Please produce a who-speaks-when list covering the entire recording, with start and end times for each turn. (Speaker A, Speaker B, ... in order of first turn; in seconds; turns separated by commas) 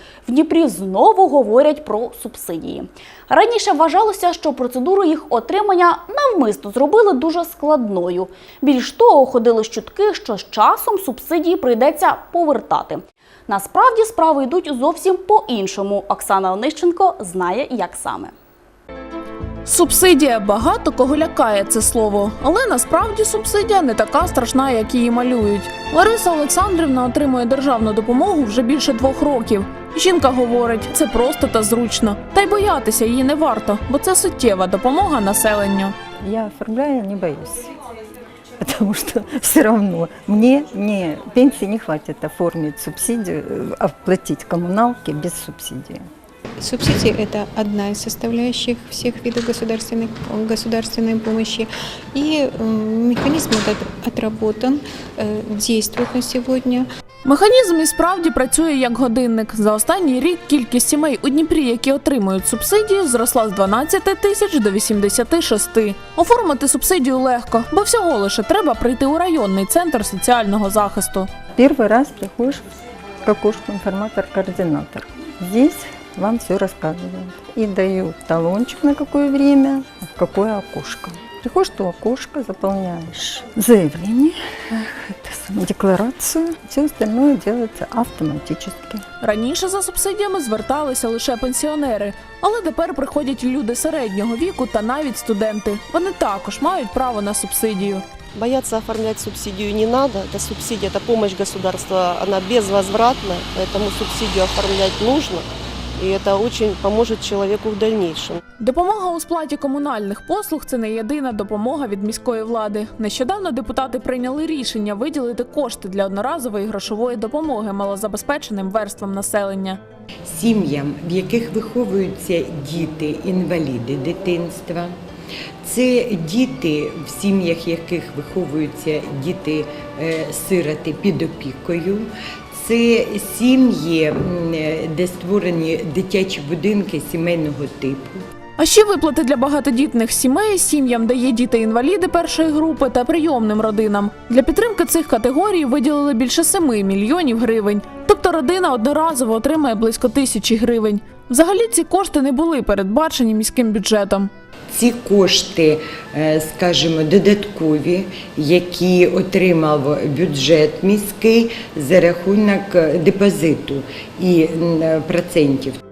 Speaker A: 0.2-18.3, Speaker B: 19.6-36.0, Speaker C: 36.2-37.7, Speaker C: 38.6-46.0, Speaker D: 46.6-56.9, Speaker B: 57.2-71.3, Speaker C: 71.5-72.6, Speaker C: 73.2-89.0, Speaker B: 89.2-98.0, Speaker E: 98.3-108.4, Speaker B: 108.6-119.8, Speaker F: 120.3-124.9, Speaker F: 125.6-138.2, Speaker B: 138.6-154.3, Speaker F: 154.7-165.8